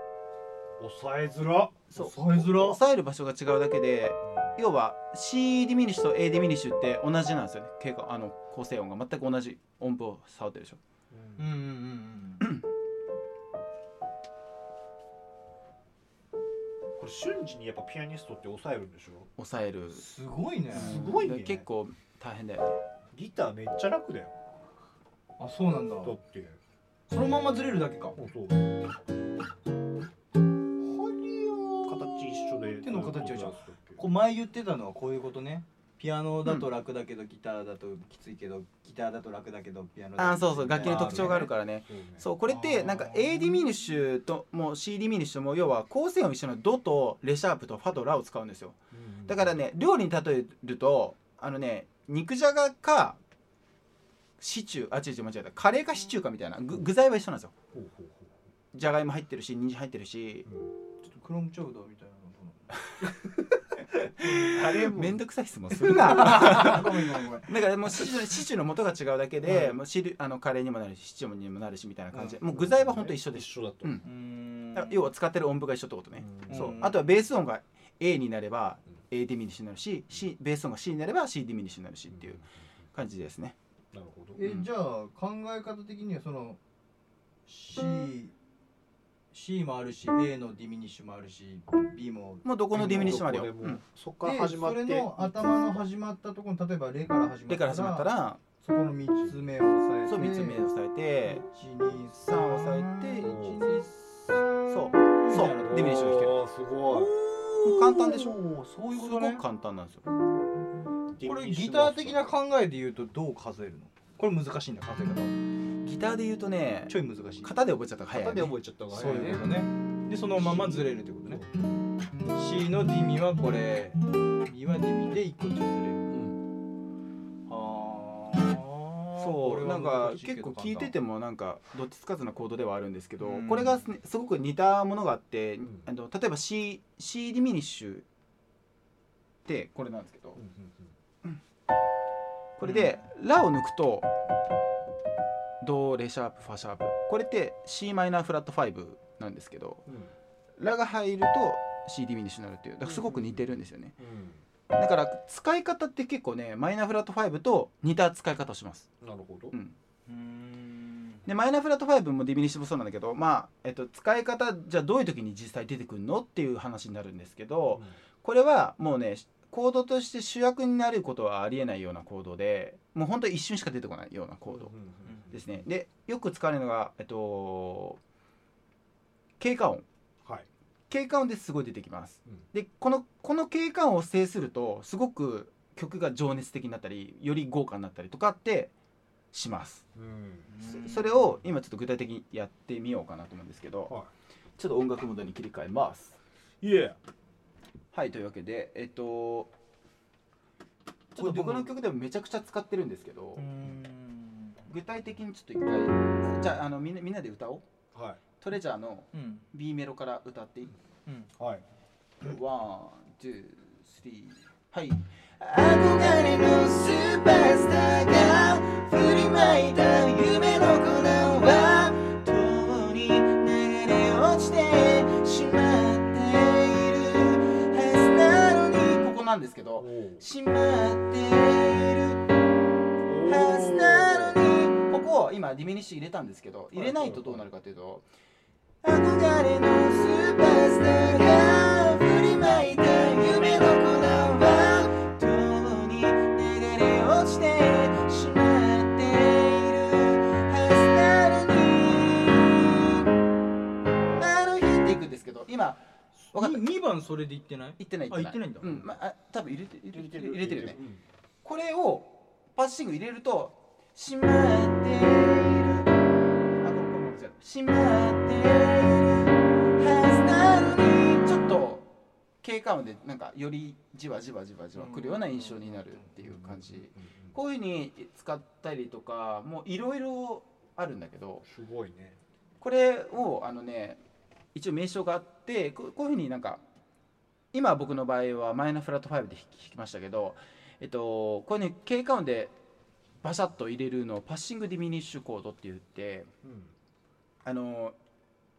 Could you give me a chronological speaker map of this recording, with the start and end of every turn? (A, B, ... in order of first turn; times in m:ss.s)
0:00.8-0:01.8 A
0:01.9-0:10.8 B
0:01.9-0:02.8 C
0:11.1-0:11.4 A
0:11.4-0:12.5 C
0:17.0-0:19.3 A
0:19.4-0:20.0 B
0:19.9-0:21.0 C
0:20.7-0:21.6 A
0:20.7-0:22.8 B
0:23.1-0:24.3 A
0:25.4-0:26.2 C
0:26.0-0:26.6 A
0:27.1-0:28.1 C
0:28.2-0:28.8 A
0:30.8-0:41.5 C
0:31.8-0:34.0 A
0:40.2-0:53.2 B
0:40.8-0:42.2 A
0:42.4-0:43.6 C
0:48.9-0:49.5 A
0:54.4-0:57.5 B
0:57.7-0:58.3 A
0:58.7-1:00.5 B
1:01.0-1:02.8 C
1:04.2-1:04.6 C
1:04.2-1:14.0 B
1:04.3-1:05.2 A
1:05.8-1:07.5 C
1:09.4-1:09.7 A
1:12.1-1:14.0 A
1:14.0-1:15.1 C
1:14.7-1:22.4 B
1:16.2-1:16.8 A
1:16.5-1:17.0 C
1:22.1-1:22.4 A
1:22.9-1:23.6 B
1:23.9-1:24.4 A
1:24.4-1:26.6 C
1:24.4-1:24.7 B
1:27.5-1:28.3 C
1:29.3-1:33.2 C
1:32.4-1:33.8 B
1:32.7-1:35.8 A
1:34.2-1:40.6 C
1:37.5-1:38.4 B
1:40.0-1:41.4 B
1:41.2-1:46.1 C
1:42.2-1:43.9 B
1:43.2-1:43.7 A
1:44.7-1:46.4 B
1:45.6-1:47.1 A
1:46.9-1:49.4 C
1:47.6-1:48.4 B
1:48.9-1:50.0 B
1:51.1-1:52.3 A
1:51.2-1:55.3 C
1:55.8-1:58.5 B
1:56.9-1:57.5 C
1:58.1-1:59.5 A
1:58.9-2:01.4 C
2:00.4-2:01.5 A
2:02.3-2:06.1 C
2:06.1-2:06.4 A
2:07.5-2:10.9 C
2:09.2-2:18.0 B
2:13.2-2:13.8 C
2:19.4-2:20.4 B
2:20.4-2:20.9 A
2:22.6-2:24.1 B
2:22.6-2:22.9 C
2:25.6-2:29.8 B
2:29.9-2:30.1 A
2:30.6-2:33.9 B
2:32.8-2:34.4 A
2:34.7-2:38.9 B
2:39.0-2:39.5 A
2:39.5-2:39.8 B
2:40.1-2:41.2 C
2:41.2-2:54.7 B
2:54.5-2:55.6 A
2:55.3-2:58.0 B
2:59.4-2:59.8 B
3:00.9-3:08.7 B
3:09.3-3:09.8 B
3:09.9-3:10.5 A
3:10.5-3:11.3 C
3:10.6-3:13.9 B
3:14.6-3:16.2 B
3:16.6-3:17.0 A
3:17.9-3:19.5 B
3:21.1-3:23.5 B
3:21.2-3:21.7 C
3:23.4-3:24.6 C
3:24.7-3:27.6 B
3:27.9-3:28.2 A
3:28.4-3:30.7 B
3:29.1-3:29.4 C
3:31.4-3:31.6 A
3:32.2-3:52.2 B
3:49.8-3:50.2 A
3:53.0-3:54.4 A
3:53.2-3:58.0 B
3:56.7-3:57.4 A
3:58.8-4:13.1 B
4:14.2-4:15.8 B
4:16.3-4:18.8 C
4:16.3-4:16.6 B
4:17.8-4:20.8 B
4:19.9-4:21.0 A
4:21.4-4:26.0 B
4:26.6-4:31.9 B
4:32.4-4:41.4 B
4:34.7-4:36.1 C
4:36.2-4:37.3 A
4:41.4-4:42.2 A
4:42.6-4:44.0 B
4:44.5-4:46.6 B
4:47.5-4:52.5 B
4:53.2-4:56.3 B
4:56.4-4:56.7 A
4:57.4-4:58.0 B